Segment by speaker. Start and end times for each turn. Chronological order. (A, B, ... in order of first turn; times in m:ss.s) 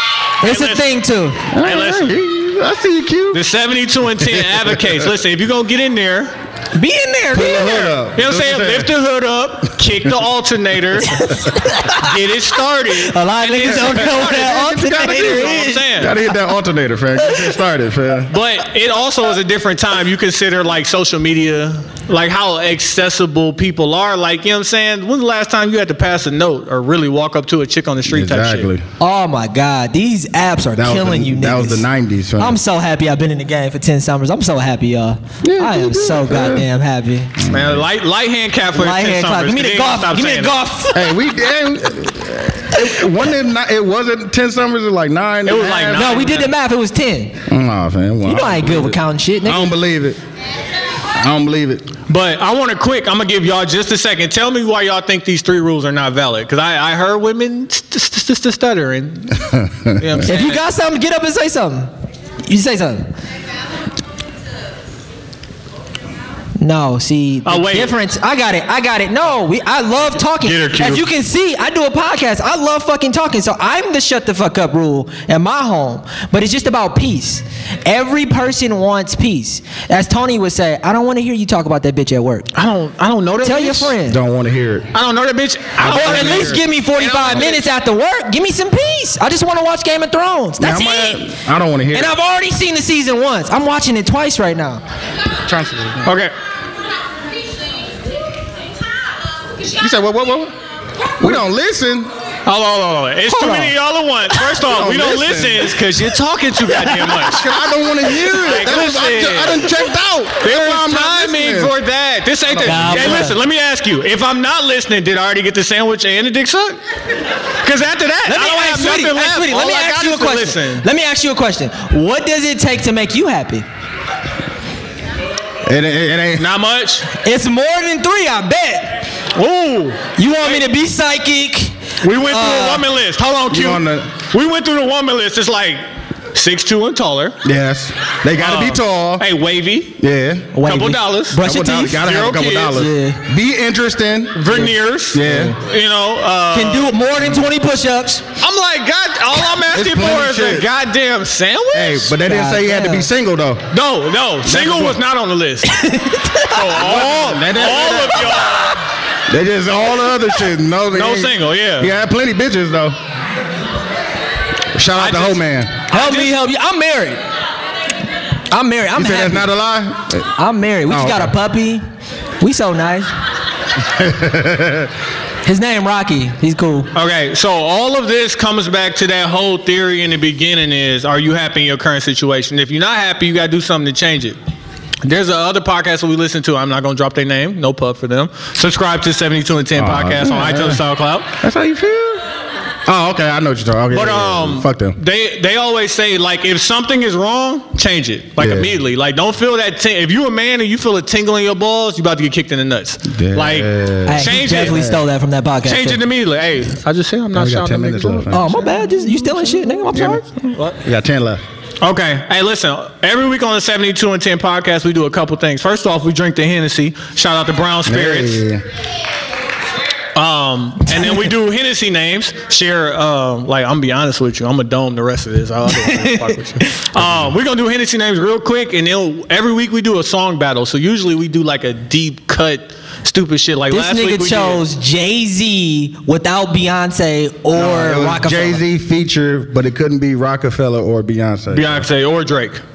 0:00.4-0:01.5 A
0:00.4-0:00.9 B
0:01.5-0:03.4 C
0:01.5-0:02.2 B
0:03.3-0:06.3 B
0:04.2-0:05.0 C
0:06.7-0:07.9 A
0:07.3-0:08.9 C
0:08.1-0:11.3 B
0:11.1-0:12.1 A
0:11.9-0:16.2 B
0:13.0-0:15.9 A
0:13.7-0:15.4 C
0:15.9-0:18.3 C
0:18.3-0:28.7 B
0:28.1-0:28.8 C
0:29.0-0:31.8 A
0:30.7-0:32.6 C
0:32.4-0:37.3 A
0:35.4-0:36.7 C
0:37.4-0:37.8 C
0:37.5-0:40.6 B
0:38.7-0:41.1 A
0:40.9-0:46.1 C
0:45.4-0:46.5 B
0:45.9-0:47.4 A
0:47.5-0:50.2 C
0:48.2-0:49.7 A
0:51.1-0:51.9 C
0:52.1-1:00.6 B
0:59.5-1:00.0 C
1:00.2-1:01.9 A
1:02.4-1:03.1 A
1:06.6-1:22.5 A
1:07.4-1:08.0 B
1:10.4-1:11.0 B
1:22.5-1:23.9 B
1:23.4-1:24.2 A
1:24.0-1:24.9 C
1:24.9-1:27.7 B
1:25.8-1:26.6 C
1:25.8-1:31.3 A
1:30.6-1:32.1 C
1:31.9-1:34.8 A
1:35.4-1:36.1 C
1:36.0-1:36.3 B
1:39.8-1:40.5 C
1:41.2-1:42.1 C
1:42.4-1:47.6 B
1:43.3-1:43.7 A
1:44.6-1:45.7 C
1:47.2-1:51.7 C
1:48.2-1:49.7 B
1:50.4-1:56.8 B
1:52.5-1:53.3 C
1:52.6-1:53.4 A
1:57.6-2:00.8 B
1:58.2-2:03.6 A
2:05.6-2:06.5 C
2:06.4-2:07.1 B
2:07.2-2:09.0 A
2:09.3-2:10.6 B
2:10.2-2:12.9 A
2:12.0-2:15.8 B
2:13.5-2:14.1 C
2:16.3-2:17.4 B
2:17.4-2:19.2 C
2:18.4-2:20.0 B
2:20.0-2:20.6 C
2:20.5-2:22.1 A
2:20.6-2:21.4 B
2:21.4-2:25.6 C
2:22.0-2:22.9 B
2:22.7-2:23.2 A
2:24.3-2:26.9 B
2:26.5-2:28.2 A
2:28.4-2:32.2 B
2:29.6-2:30.7 C
2:31.7-2:33.6 C
2:32.2-2:33.1 A
2:33.7-2:35.7 B
2:34.4-2:35.0 C
2:35.7-2:36.8 A
2:36.4-2:38.8 B
2:36.8-2:38.4 C
2:39.3-2:43.0 C
2:40.9-2:41.9 B
2:44.7-2:45.8 C
2:44.9-2:46.4 B
2:45.9-2:47.2 A
2:48.5-2:49.4 A
2:48.9-2:50.3 C
2:50.4-2:51.8 A
2:50.9-2:51.3 C
2:52.4-2:53.1 A
2:53.8-2:54.9 C
2:55.4-2:56.9 A
2:56.9-3:04.4 B
3:05.0-3:11.3 B
3:09.7-3:10.8 C
3:11.4-3:12.2 C
3:12.8-3:15.0 C
3:13.9-3:24.8 B
3:18.4-3:18.8 C
3:23.1-3:25.0 C
3:24.1-3:26.0 A
3:25.6-3:28.7 B
3:27.3-3:28.8 C
3:28.3-3:30.2 A
3:29.9-3:30.2 C
3:30.4-3:30.8 B
3:30.8-3:31.4 C
3:31.8-3:38.4 B
3:37.8-3:38.6 C
3:40.1-3:54.6 B
3:45.7-3:46.7 A
3:46.9-3:47.3 C
3:53.7-3:58.6 A
3:57.5-4:01.9 C
4:01.5-4:02.6 B